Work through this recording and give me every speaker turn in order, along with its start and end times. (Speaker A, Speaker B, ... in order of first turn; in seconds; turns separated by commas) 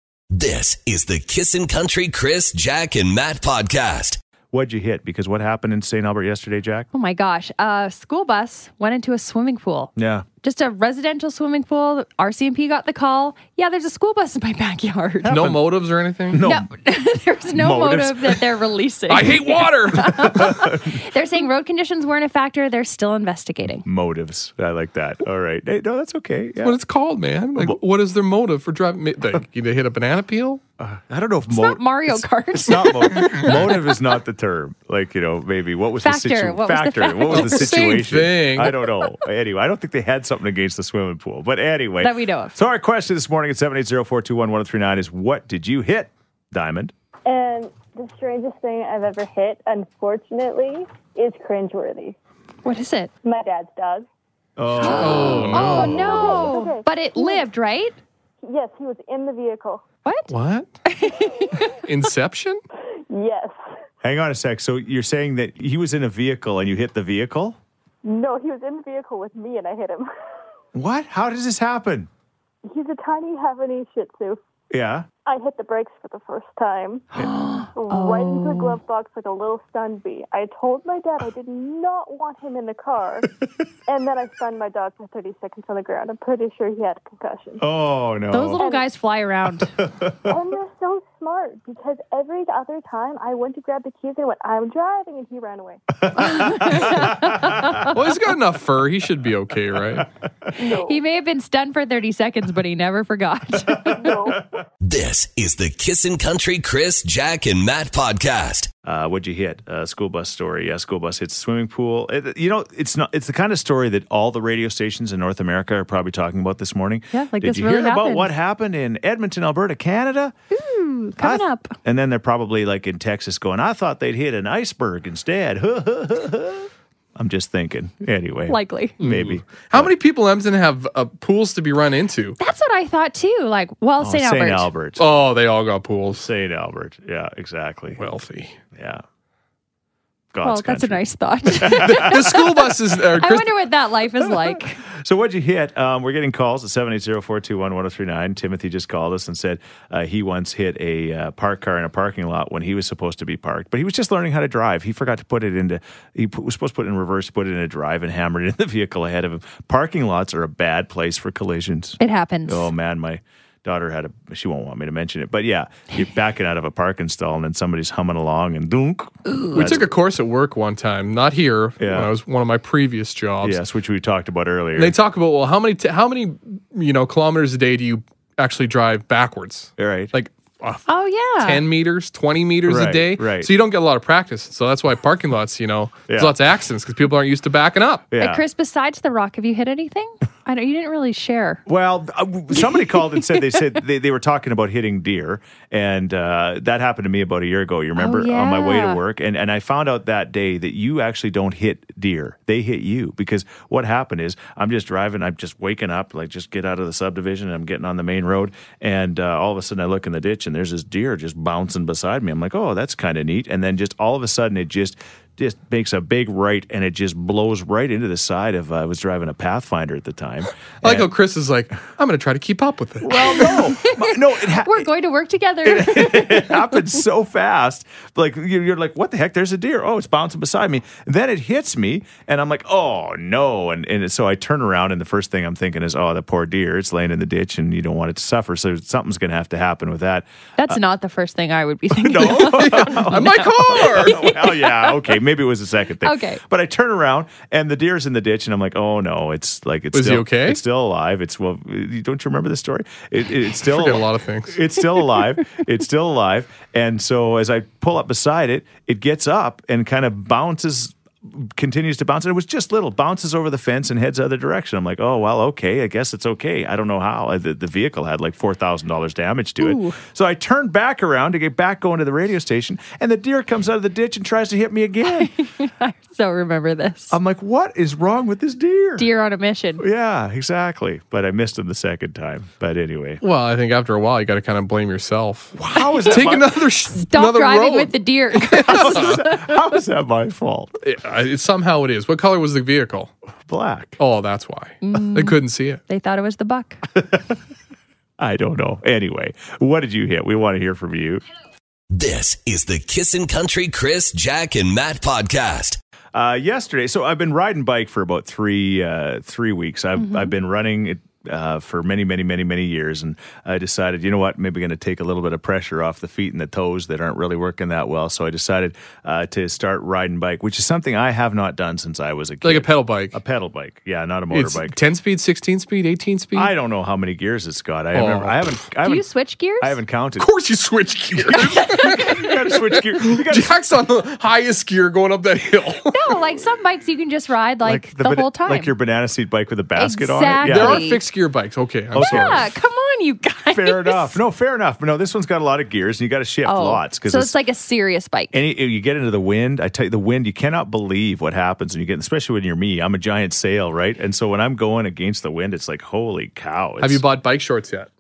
Speaker A: 0.3-4.2, Speaker B: 4.5-6.9, Speaker C: 6.9-15.4, Speaker B: 10.0-10.3, Speaker B: 15.2-15.6, Speaker D: 15.3-16.4, Speaker B: 16.3-16.7, Speaker C: 16.4-23.9, Speaker B: 17.5-18.5, Speaker D: 19.1-20.3, Speaker B: 20.2-21.0, Speaker B: 23.9-26.8, Speaker D: 26.6-30.6, Speaker B: 30.8-46.9, Speaker C: 31.5-33.6, Speaker C: 36.0-38.0, Speaker D: 37.3-38.7, Speaker C: 42.0-42.6, Speaker E: 47.3-52.2, Speaker C: 52.6-53.1, Speaker E: 53.2-54.1, Speaker B: 54.6-56.0, Speaker C: 54.8-58.0, Speaker D: 54.9-56.2, Speaker E: 55.5-57.5, Speaker E: 58.4-59.8, Speaker C: 60.0-60.3, Speaker D: 60.3-60.7, Speaker C: 60.9-61.8, Speaker D: 61.8-62.6, Speaker E: 63.1-63.6, Speaker B: 64.0-67.6, Speaker E: 68.0-70.1, Speaker B: 70.7-72.1, Speaker E: 72.7-74.4, Speaker B: 74.7-75.1, Speaker E: 75.3-77.1, Speaker C: 77.2-78.8, Speaker E: 77.8-83.3, Speaker E: 83.9-87.6, Speaker B: 87.6-88.6, Speaker C: 88.3-89.7, Speaker E: 88.6-88.9, Speaker B: 89.8-90.3, Speaker E: 90.3-95.8, Speaker B: 96.1-98.0, Speaker C: 96.2-97.9, Speaker D: 97.9-100.1, Speaker E: 100.6-101.0, Speaker C: 100.6-104.0, Speaker B: 103.7-104.3, Speaker E: 103.9-104.5, Speaker A: 104.8-108.7, Speaker B: 108.8-120.3, Speaker C: 117.1-118.3, Speaker C: 120.5-121.8, Speaker B: 121.2-129.9, Speaker C: 128.5-129.0, Speaker D: 129.0-132.4, Speaker C: 132.4-134.7, Speaker B: 134.0-135.1, Speaker D: 135.0-136.3, Speaker B: 136.1-138.0, Speaker D: 137.9-138.6, Speaker B: 138.8-139.0, Speaker B: 140.3-142.6, Speaker C: 140.4-142.4, Speaker D: 141.8-143.6, Speaker C: 143.2-144.8, Speaker B: 144.9-169.9, Speaker C: 162.0-162.7, Speaker C: 169.2-169.7, Speaker D: 169.5-173.6, Speaker B: 171.8-172.1, Speaker B: 173.4-175.0, Speaker D: 174.8-180.8, Speaker B: 179.8-180.1, Speaker C: 180.9-181.6, Speaker D: 181.4-188.1, Speaker B: 182.7-183.5, Speaker B: 186.1-186.3, Speaker B: 188.1-188.4, Speaker C: 188.2-191.6, Speaker B: 191.7-221.1, Speaker C: 198.0-199.0, Speaker D: 220.8-223.5, Speaker B: 223.0-224.9, Speaker C: 223.2-226.8, Speaker B: 225.6-240.8, Speaker C: 240.6-244.9, Speaker B: 241.9-275.3, Speaker D: 242.3-244.3, Speaker C: 246.0-246.4, Speaker D: 249.9-250.6, Speaker D: 253.6-254.6, Speaker C: 269.6-270.0, Speaker C: 275.1-277.2, Speaker B: 277.1-279.1, Speaker C: 279.0-279.8, Speaker B: 279.8-283.2, Speaker D: 283.2-285.6, Speaker B: 285.6-286.6, Speaker C: 285.8-286.2, Speaker D: 286.1-289.2, Speaker C: 286.9-289.7, Speaker B: 288.6-290.7, Speaker D: 290.8-293.1, Speaker B: 293.5-294.0, Speaker D: 294.0-295.8, Speaker C: 294.8-296.8, Speaker B: 297.0-297.3, Speaker B: 298.2-301.2, Speaker A: 301.9-305.8, Speaker B: 306.1-324.8, Speaker C: 310.0-310.3, Speaker D: 322.4-323.2, Speaker D: 324.3-326.5, Speaker B: 326.4-329.1, Speaker D: 327.9-328.4, Speaker C: 328.8-329.8, Speaker B: 329.6-330.3, Speaker D: 330.2-336.0, Speaker B: 331.2-333.6, Speaker C: 331.6-332.2, Speaker C: 335.9-338.7, Speaker B: 337.6-340.9, Speaker C: 339.8-341.0, Speaker D: 340.4-342.5, Speaker B: 341.9-342.5, Speaker C: 342.0-344.2, Speaker B: 343.5-347.4, Speaker C: 346.4-348.4, Speaker B: 348.3-357.0, Speaker D: 356.8-357.9